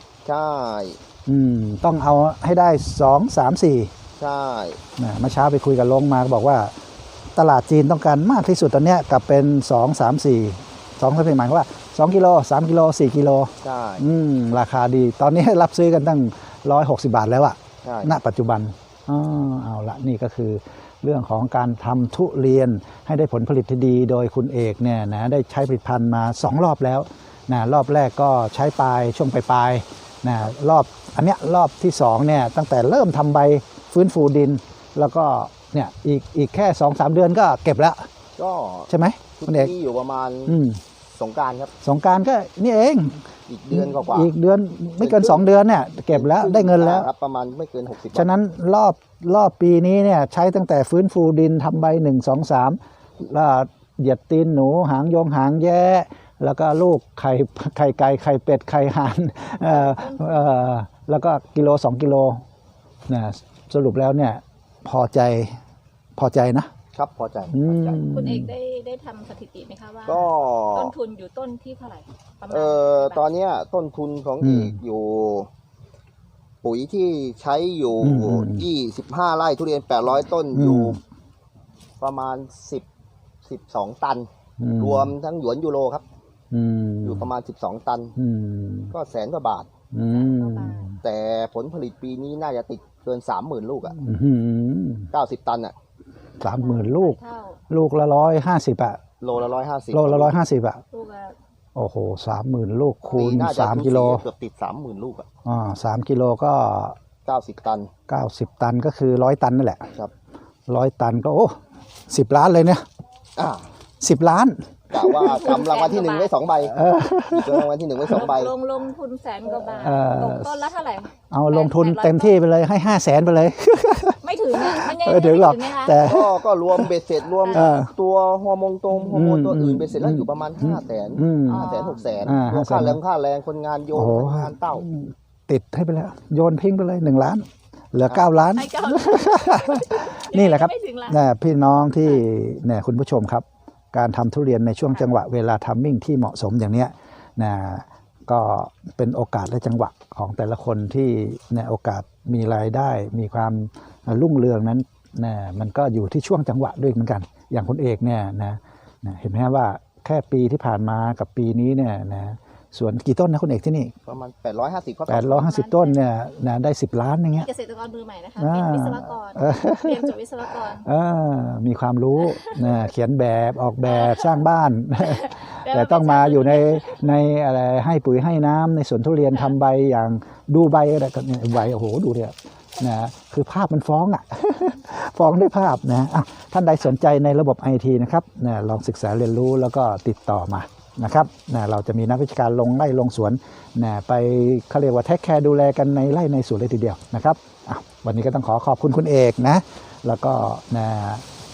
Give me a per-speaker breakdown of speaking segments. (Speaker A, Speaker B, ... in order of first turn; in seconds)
Speaker A: 0.2-1.0, 4.2-4.8, 13.6-14.0, 17.8-18.2, 38.4-40.6, 41.1-41.7, 43.5-44.3, 45.0-45.5, 46.1-48.3, 66.9-68.0, 70.0-70.9, 72.5-75.5, 76.6-81.0, 82.0-82.8, 83.4-86.0, 87.0-88.2, 88.9-89.7, 91.0-94.0, 95.1-95.7, 99.2-100.4, 103.0-105.2, 107.2-107.9, 113.4-113.7, 114.9-116.8, 117.3-118.5, 126.0-134.9, 164.1-165.6
Speaker B: 1.3-3.9, 5.0-6.7, 7.3-38.1, 38.9-39.7, 40.5-40.8, 41.8-47.1, 48.1-62.4, 63.1-65.6, 66.2-66.7, 67.5-68.5, 74.4-74.8, 78.0-78.7, 80.5-81.0, 84.6-85.1, 86.5-87.3, 88.2-88.9, 89.9-91.0, 94.0-95.1, 96.4-97.2, 97.7-99.0, 99.9-100.8, 101.8-104.2, 105.4-107.0, 108.1-109.9, 110.7-111.6, 112.1-112.8, 114.0-115.3, 116.7-117.7, 119.8-120.5, 121.3-126.9, 127.5-127.9, 129.1-133.0, 133.9-163.9, 165.1-167.5, 168.4-201.2
Speaker C: 59.6-60.5, 68.1-73.2, 90.1-90.9, 96.4-97.6, 100.9-101.4, 115.2-116.3, 118.1-122.4, 124.2-126.0, 131.5-132.0, 138.5-141.2, 165.4-166.0, 167.3-170.8, 173.8-174.3, 175.0-177.0